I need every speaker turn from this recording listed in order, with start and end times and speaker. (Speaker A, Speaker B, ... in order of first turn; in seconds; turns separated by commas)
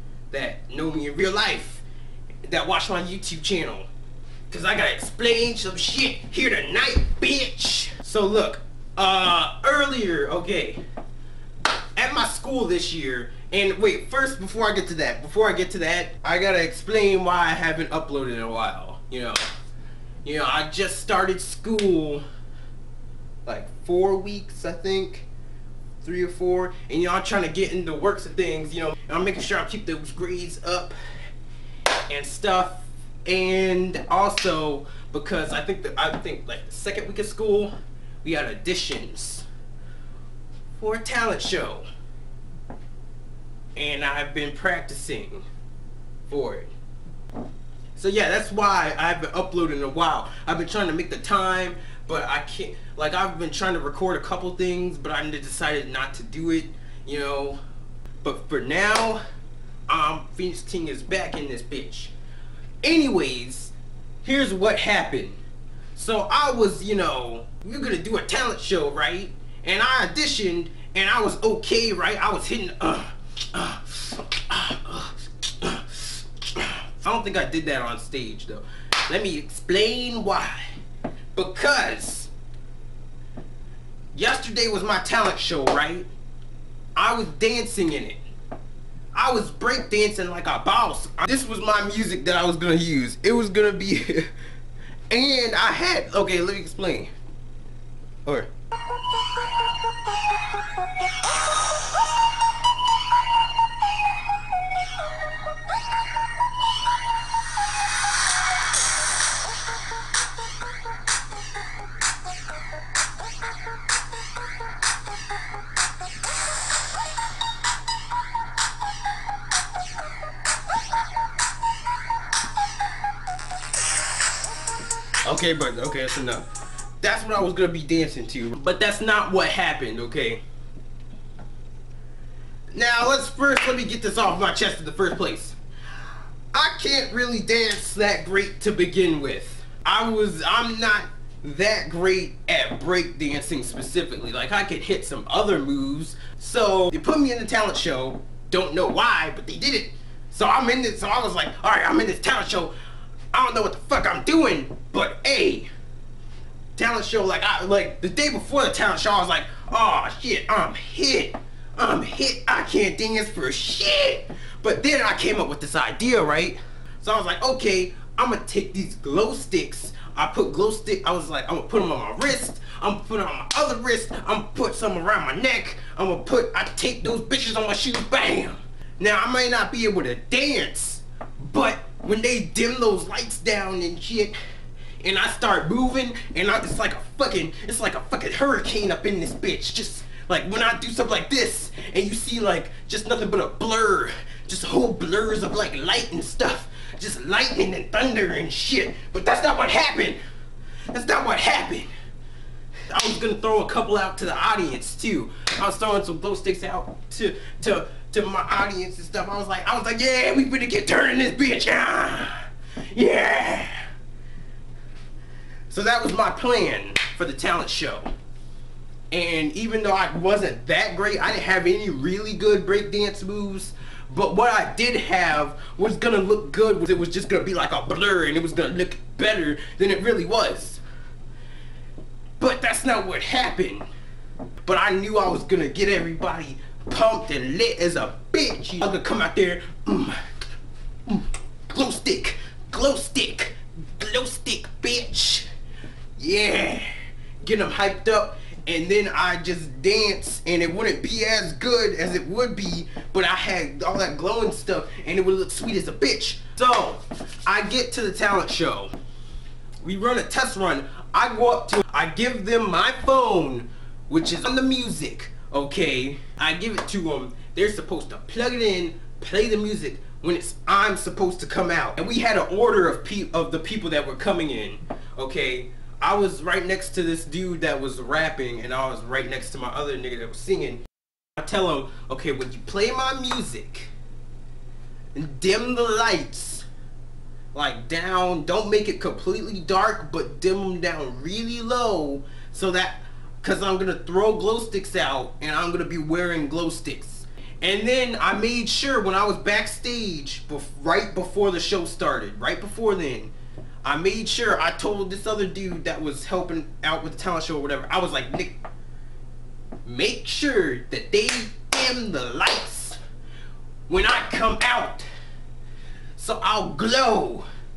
Speaker A: 0.3-1.8, Speaker A: 2.5-3.9, Speaker A: 4.5-10.8, Speaker A: 12.0-19.4, Speaker A: 20.2-22.2, Speaker A: 23.4-25.3, Speaker A: 26.0-31.0, Speaker A: 32.1-37.7, Speaker A: 38.2-39.5, Speaker A: 40.8-41.9, Speaker A: 43.8-45.5, Speaker A: 46.3-46.7, Speaker A: 47.9-57.6, Speaker A: 58.2-59.2, Speaker A: 59.9-62.1, Speaker A: 62.8-65.4, Speaker A: 66.0-80.7, Speaker A: 81.3-82.3, Speaker A: 84.2-86.1, Speaker A: 87.0-88.2, Speaker A: 89.1-94.3, Speaker A: 95.1-97.1, Speaker A: 125.2-126.5, Speaker A: 127.0-130.4, Speaker A: 132.7-135.6, Speaker A: 136.5-152.8, Speaker A: 153.3-155.7, Speaker A: 156.8-184.4, Speaker A: 185.0-200.2, Speaker A: 200.9-201.9, Speaker A: 202.9-213.9, Speaker A: 215.7-218.1, Speaker A: 219.1-230.8, Speaker A: 232.4-233.9, Speaker A: 234.6-240.2, Speaker A: 241.1-245.5, Speaker A: 246.2-246.9, Speaker A: 247.4-258.9, Speaker A: 259.8-280.8, Speaker A: 281.4-283.9, Speaker A: 285.1-286.7, Speaker A: 287.5-303.3, Speaker A: 303.8-308.6, Speaker A: 309.8-313.0, Speaker A: 313.9-315.1, Speaker A: 316.2-317.5